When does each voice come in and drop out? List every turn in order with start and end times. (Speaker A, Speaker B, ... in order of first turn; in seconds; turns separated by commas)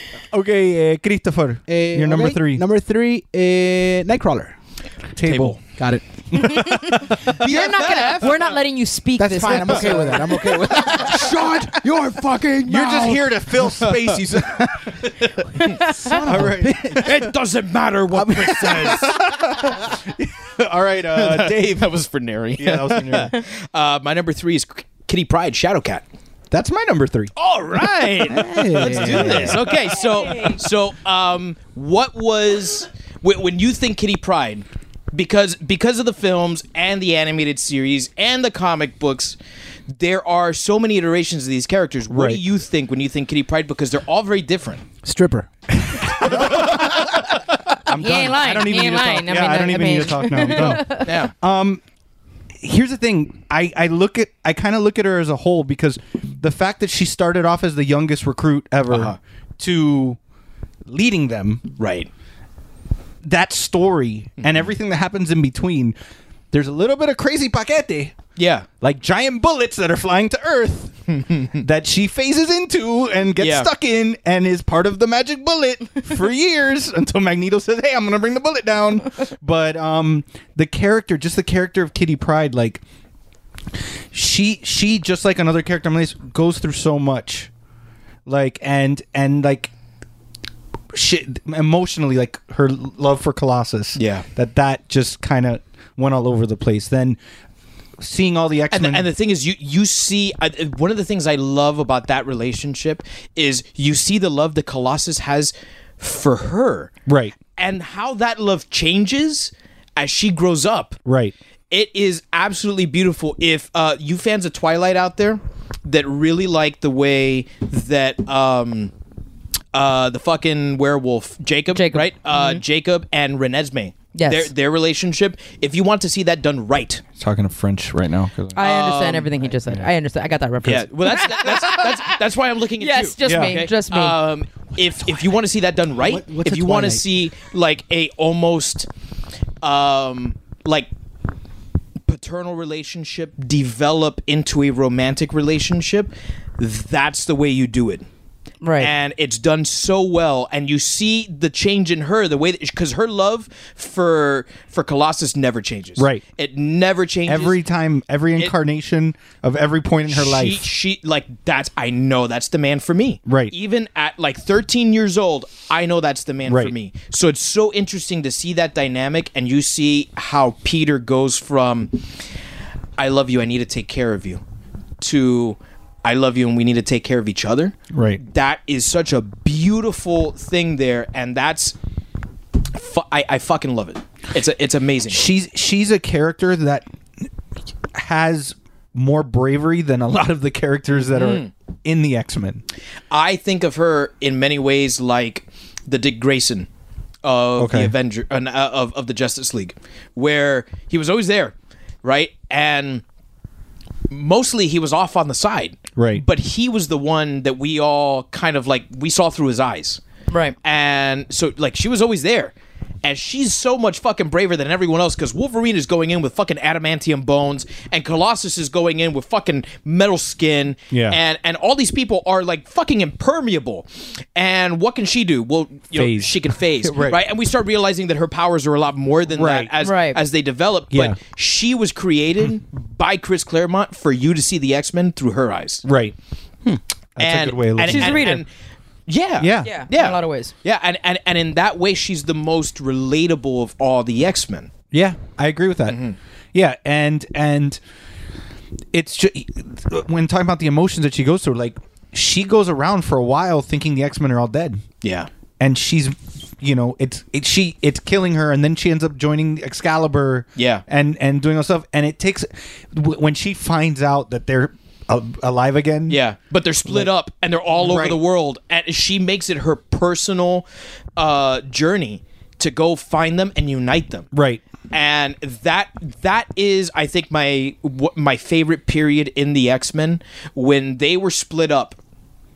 Speaker A: 0.3-2.6, Speaker B: 1.7-4.5, Speaker A: 5.1-5.6, Speaker C: 5.2-5.6, Speaker B: 5.8-6.0, Speaker A: 6.3-7.2, Speaker D: 6.3-10.2, Speaker C: 7.3-8.4, Speaker B: 9.2-12.6, Speaker A: 9.7-10.2, Speaker C: 10.9-14.4, Speaker A: 12.7-15.3, Speaker D: 15.6-16.2, Speaker B: 15.8-17.2, Speaker A: 16.1-17.3, Speaker C: 16.9-19.1, Speaker B: 18.1-19.0, Speaker A: 18.6-21.9, Speaker C: 21.1-26.0, Speaker A: 22.6-23.3, Speaker A: 26.5-27.3, Speaker C: 27.4-39.4, Speaker B: 28.3-29.6, Speaker A: 28.8-29.7, Speaker C: 39.9-44.8, Speaker A: 42.1-42.4, Speaker B: 45.0-45.5, Speaker A: 45.9-51.8, Speaker D: 47.9-51.1, Speaker C: 50.5-51.3, Speaker A: 52.6-60.2, Speaker C: 58.9-59.2, Speaker A: 60.9-61.6, Speaker C: 61.8-62.1, Speaker A: 63.2-66.0, Speaker A: 66.5-68.2, Speaker C: 68.4-68.7, Speaker A: 68.8-82.8, Speaker C: 71.1-71.5, Speaker C: 73.4-73.7, Speaker A: 84.1-87.5, Speaker A: 88.2-89.7, Speaker A: 90.9-97.2, Speaker C: 94.0-94.2, Speaker A: 98.0-99.1, Speaker C: 98.7-106.9, Speaker A: 107.1-107.3, Speaker C: 107.5-111.0, Speaker A: 111.0-111.3, Speaker C: 111.7-118.9, Speaker C: 119.7-127.0, Speaker D: 121.7-122.6, Speaker D: 124.1-124.5, Speaker A: 127.2-128.7, Speaker C: 128.6-129.3, Speaker D: 128.6-132.1, Speaker C: 130.6-138.9, Speaker D: 132.8-134.2, Speaker A: 133.2-133.6, Speaker B: 136.0-137.0, Speaker C: 139.6-140.9, Speaker C: 142.1-148.1, Speaker D: 148.6-148.9, Speaker C: 148.8-157.6, Speaker A: 156.0-156.2, Speaker A: 157.2-160.7, Speaker C: 160.1-171.9, Speaker A: 163.2-163.5, Speaker A: 166.4-166.7, Speaker C: 173.0-174.4, Speaker C: 175.0-181.7, Speaker A: 177.9-178.2, Speaker C: 182.7-185.3, Speaker A: 185.1-187.3, Speaker A: 187.9-192.6, Speaker C: 191.1-191.5, Speaker C: 193.1-196.7, Speaker C: 197.2-203.0, Speaker A: 197.6-197.9, Speaker C: 204.1-210.0, Speaker A: 206.0-206.2, Speaker D: 210.3-210.6, Speaker C: 210.6-235.8, Speaker A: 220.9-221.2, Speaker A: 225.9-227.2, Speaker A: 229.3-229.7, Speaker D: 229.8-230.2, Speaker A: 230.9-231.2, Speaker A: 235.8-236.2, Speaker A: 237.2-238.3, Speaker C: 237.2-238.5, Speaker D: 237.8-238.4, Speaker C: 239.1-244.7, Speaker A: 239.4-239.7, Speaker D: 239.6-240.5, Speaker A: 244.9-247.8, Speaker C: 245.9-246.2, Speaker A: 248.9-254.8, Speaker C: 255.0-255.3, Speaker A: 255.6-266.2, Speaker C: 260.6-260.8, Speaker C: 266.1-274.3, Speaker A: 267.8-268.2, Speaker A: 274.3-274.6, Speaker C: 274.9-282.0